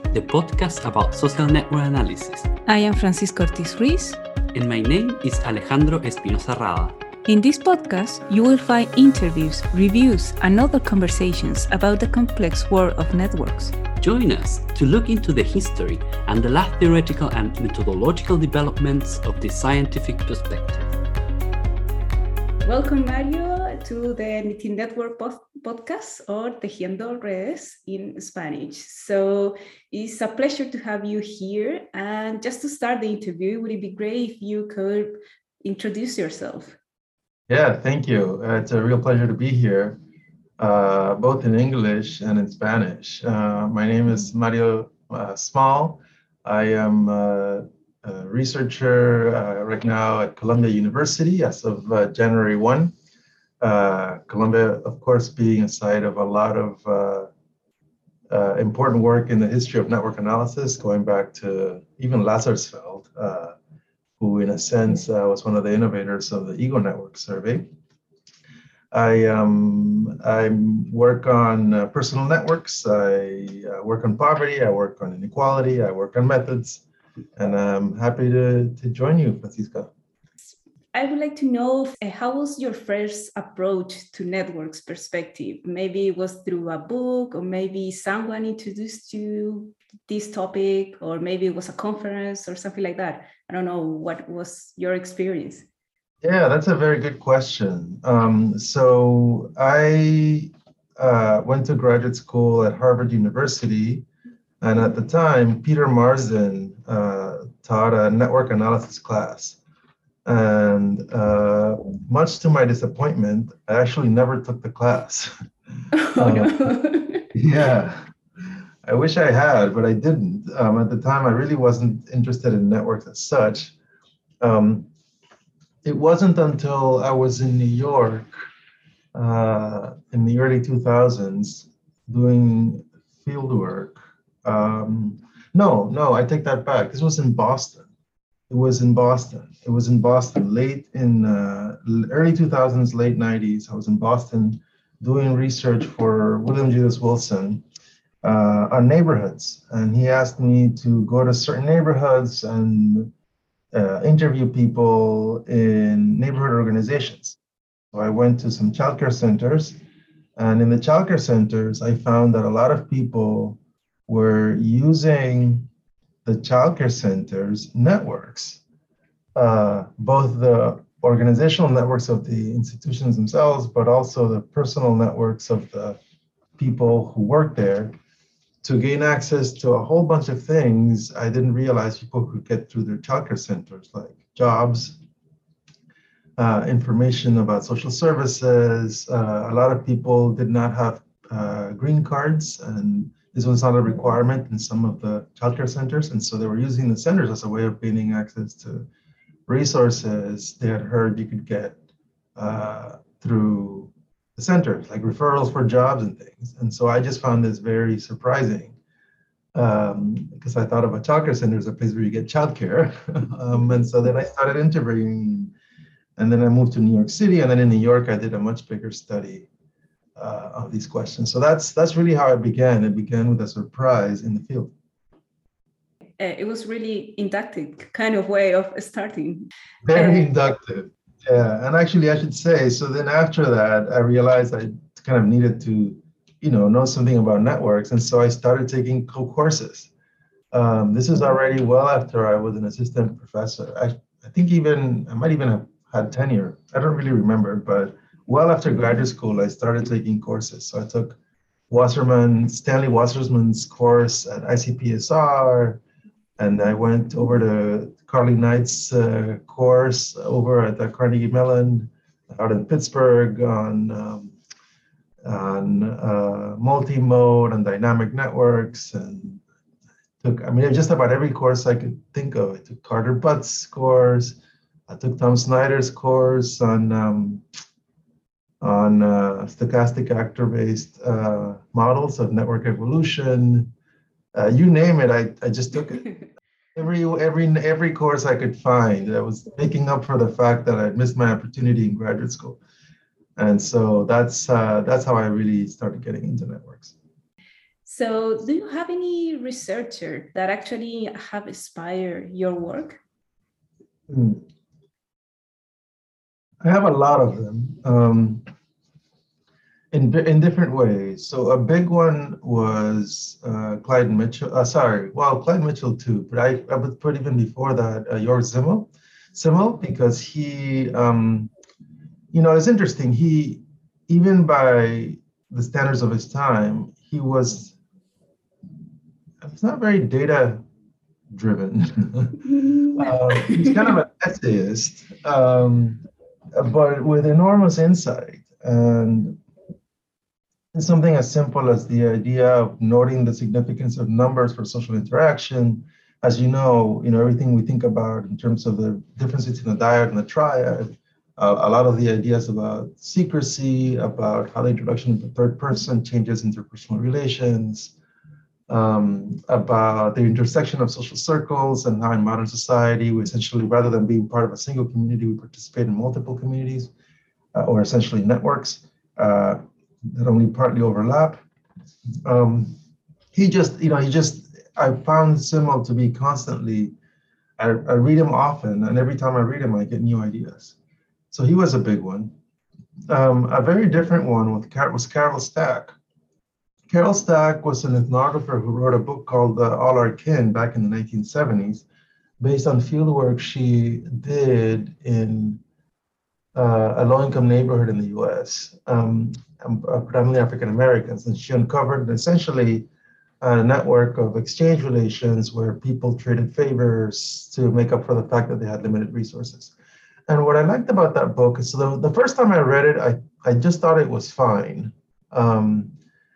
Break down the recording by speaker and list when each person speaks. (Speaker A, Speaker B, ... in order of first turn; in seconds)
Speaker A: 0.1-2.5, 4.5-7.0, 14.0-21.0
Speaker B: 2.7-4.2, 7.3-13.8, 22.6-36.8, 80.9-95.7, 115.9-117.3, 226.2-230.3, 297.9-303.0
Speaker C: 37.5-40.0, 40.6-52.9, 53.6-57.3, 58.3-63.6, 64.2-67.7, 68.9-76.8, 77.4-79.9, 96.2-104.1, 104.6-109.6, 110.2-115.3, 116.2-116.7, 117.3-118.0, 118.8-123.7, 124.4-124.9, 125.8-128.3, 129.1-137.9, 138.5-147.7, 148.2-153.1, 153.7-157.4, 157.9-159.8, 160.4-165.7, 166.2-168.6, 169.3-176.0, 176.6-177.9, 178.6-185.0, 186.4-198.9, 199.5-201.8, 202.4-208.8, 209.5-215.5, 216.2-219.5, 220.2-224.7, 229.9-239.9, 240.5-251.2, 251.7-255.8, 256.4-264.3, 265.2-269.4, 270.2-277.4, 278.6-283.7, 284.3-286.1, 286.8-292.6, 293.4-296.9, 304.1-304.4, 306.6-308.4, 309.9-321.5, 322.3-327.8, 329.4-330.6, 331.3-336.0, 336.5-339.4, 340.7-357.9, 358.7-366.9, 367.5-371.4, 372.2-372.8, 373.3-376.9, 377.6-380.8, 381.3-382.3, 383.1-385.9, 386.9-391.9, 392.4-395.6, 396.6-402.9, 403.4-409.7, 410.3-415.9